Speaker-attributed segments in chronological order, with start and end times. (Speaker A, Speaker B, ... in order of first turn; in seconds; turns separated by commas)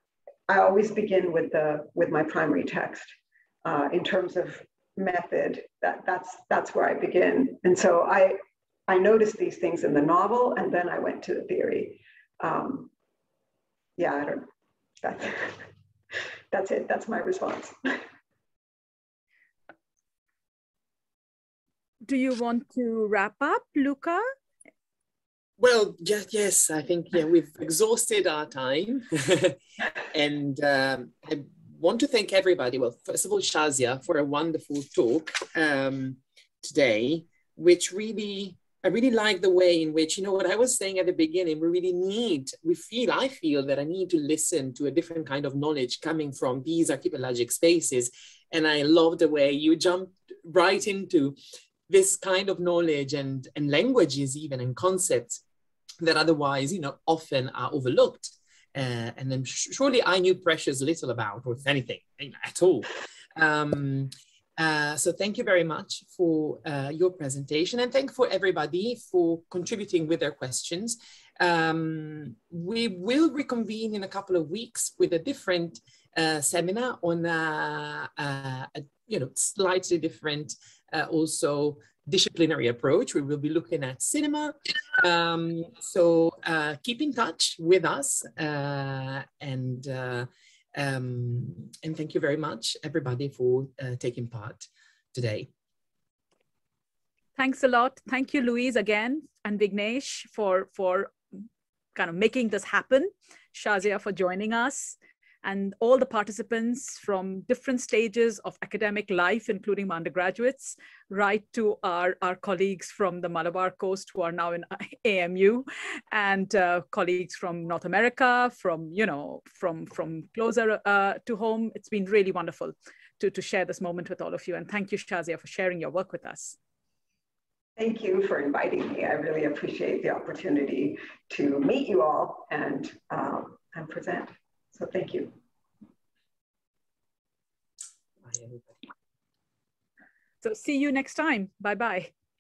Speaker A: 0.5-12.9, Speaker A: 14.0-14.5, Speaker A: 15.0-15.6, Speaker A: 16.5-18.0, Speaker B: 22.1-24.2, Speaker C: 25.6-29.6, Speaker C: 30.1-51.4, Speaker C: 51.9-55.4, Speaker C: 56.0-95.5, Speaker B: 97.4-101.2, Speaker B: 102.0-126.6, Speaker A: 127.8-135.3, Speaker C: 138.2-138.8, Speaker B: 140.4-142.1